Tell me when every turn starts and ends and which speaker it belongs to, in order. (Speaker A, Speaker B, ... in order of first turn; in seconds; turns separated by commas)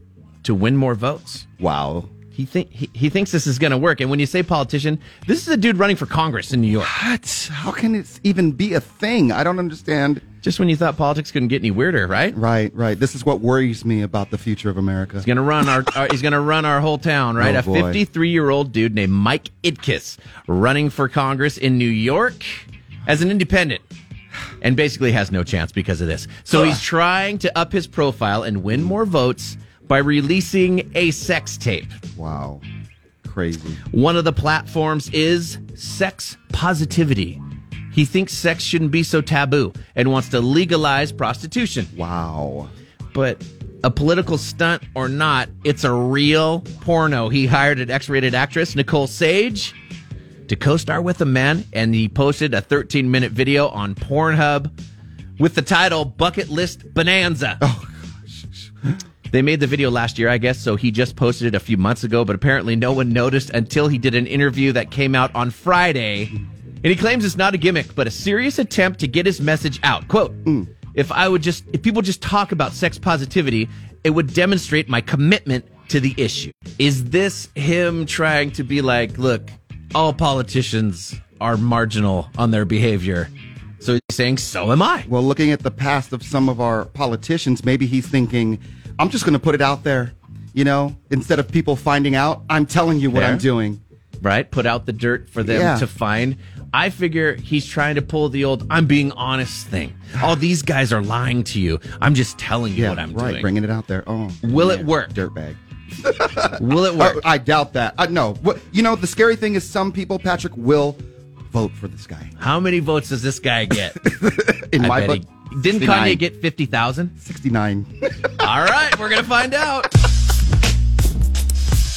Speaker A: 0.4-1.5, Speaker B: 1.6-2.1, Speaker A: 2.3-6.9, Speaker B: 6.8-10.2, Speaker A: 10.4-12.4, Speaker B: 12.3-15.3, Speaker A: 15.2-23.8, Speaker B: 17.4-18.0, Speaker A: 24.6-32.0, Speaker B: 32.2-32.6, Speaker B: 33.2-33.8, Speaker A: 33.9-37.4, Speaker A: 37.9-41.9, Speaker B: 42.0-42.7, Speaker A: 43.1-49.8, Speaker A: 50.5-54.7, Speaker A: 55.4-57.6, Speaker B: 57.6-59.0, Speaker A: 59.3-85.1, Speaker B: 85.1-93.8, Speaker A: 93.1-93.4, Speaker A: 94.2-103.5, Speaker B: 95.4-95.8, Speaker B: 102.8-111.0, Speaker A: 104.4-105.2, Speaker A: 106.5-107.2, Speaker B: 111.5-112.3, Speaker A: 112.4-114.0, Speaker B: 114.0-115.2, Speaker A: 114.8-117.1, Speaker B: 115.7-116.2, Speaker B: 117.2-118.5, Speaker A: 118.4-119.9